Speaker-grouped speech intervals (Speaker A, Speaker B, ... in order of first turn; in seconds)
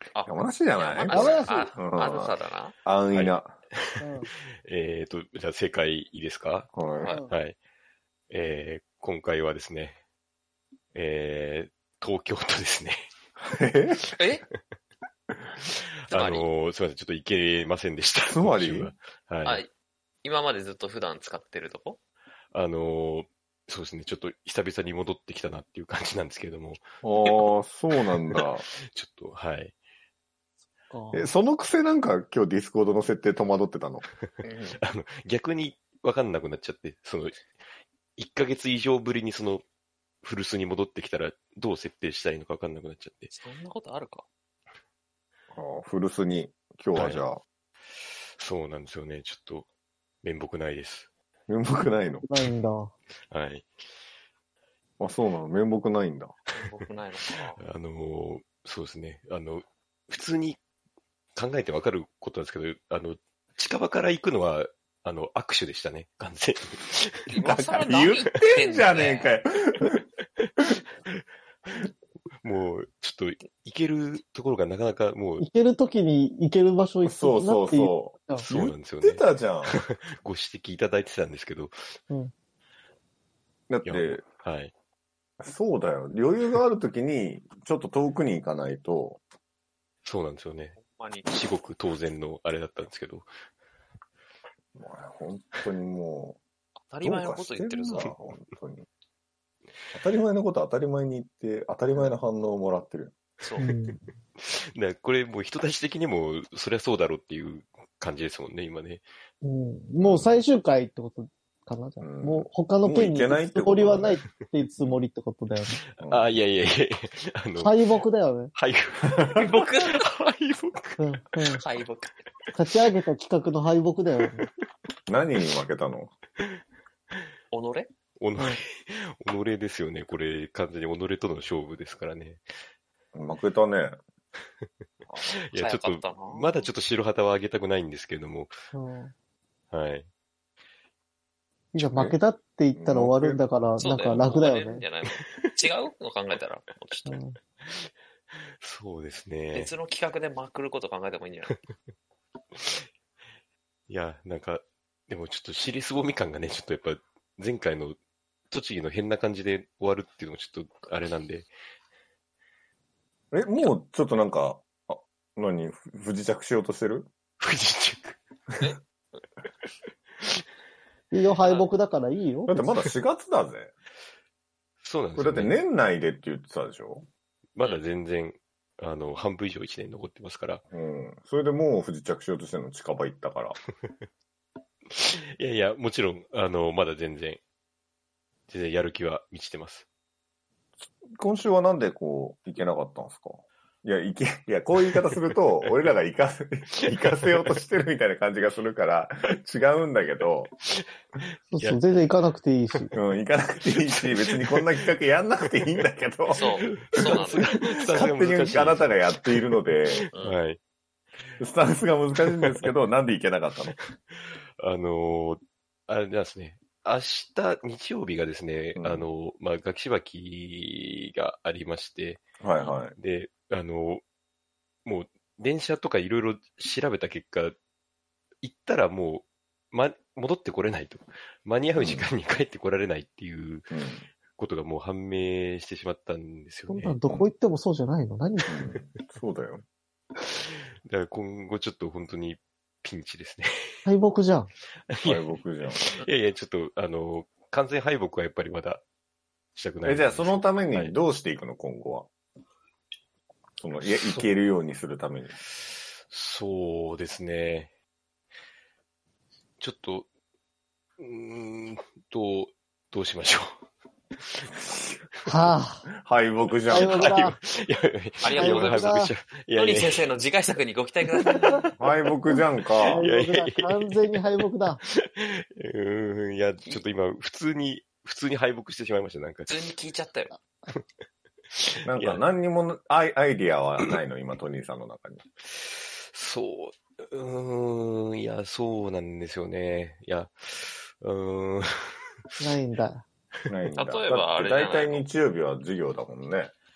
Speaker A: 0.1-2.7, 14.2-14.4, 16.1-16.4, 19.4-19.7, 20.2-22.0, 34.4-34.8, 43.3-44.2, 56.5-57.6, 67.3-69.3, 90.8-91.3, 96.9-98.1, 103.4-103.7, 119.3-120.0, 121.5-122.2, 127.5-127.9, 135.5-136.7, 143.8-147.2, 149.5-151.6, 171.4-171.7, 206.3-207.6, 210.1-210.4, 268.2-269.0, 269.5-271.7, 279.5-280.3, 293.8-295.1
Speaker B: 0.2-2.3, 2.8-3.5, 6.7-7.1, 13.4-14.1, 18.3-18.9, 27.0-28.6, 31.1-34.0, 45.5-47.4, 51.5-52.2, 55.0-56.3, 67.4-70.0, 77.0-79.8, 83.7-84.2, 85.4-89.2, 94.7-96.4, 97.0-98.8, 99.9-103.1, 110.0-110.3, 112.0-114.2, 116.0-116.3, 125.1-126.1, 133.1-134.0, 141.8-142.2, 142.7-143.4, 163.3-167.1, 172.5-173.7, 175.2-177.1, 180.7-183.6, 191.2-200.5, 202.9-210.1, 211.4-213.8, 218.8-219.1, 222.4-222.9, 231.8-232.1, 233.7-234.1, 238.5-239.6, 245.0-245.9, 249.8-252.1, 253.6-255.4, 264.5-265.0, 266.0-267.2, 271.8-273.0, 281.8-285.2, 293.5-296.5
Speaker C: 1.1-1.7, 4.0-4.3, 7.1-7.3, 30.9-31.2, 52.2-52.9, 75.4-78.5, 103.6-104.1, 109.4-115.8, 117.6-118.5, 121.0-121.6, 122.5-124.5, 138.7-139.1, 141.7-144.8, 147.1-147.4, 171.1-172.7, 201.5-202.9, 236.7-238.6, 243.8-244.5, 265.2-265.9, 266.7-267.4, 268.4-269.1, 272.8-274.8, 292.4-293.0
Speaker D: 3.1-6.7, 7.3-7.6, 8.3-10.0, 10.9-13.1, 15.6-19.6, 22.5-26.8, 28.4-29.7, 34.8-37.4, 38.2-39.6, 40.2-43.3, 46.9-47.2, 48.4-49.7, 50.2-51.1, 53.3-53.7, 57.6-60.6, 61.3-67.3, 72.4-75.5, 78.4-81.8, 83.8-84.7, 90.0-93.3, 104.4-109.0, 115.9-118.0, 118.5-121.0, 128.2-132.4, 135.3-138.6, 139.7-140.1, 147.6-147.9, 148.6-149.7, 152.5-152.9, 153.9-158.0, 158.5-161.5, 167.4-168.2, 174.8-175.6, 177.6-180.6, 184.9-187.4, 188.5-189.8, 196.8-197.4, 200.7-201.8, 203.7-204.8, 206.3-210.6, 212.3-212.7, 214.1-222.2, 222.9-224.0, 224.8-227.5, 228.4-233.7, 234.3-237.0, 240.3-243.9, 244.9-245.2, 245.8-248.8, 249.5-250.9, 253.8-254.3, 256.1-257.7, 259.6-260.1, 261.0-263.5, 264.2-264.5, 266.7-270.0, 271.3-271.6, 273.0-274.0, 274.8-279.6, 281.5-282.2, 285.5-292.4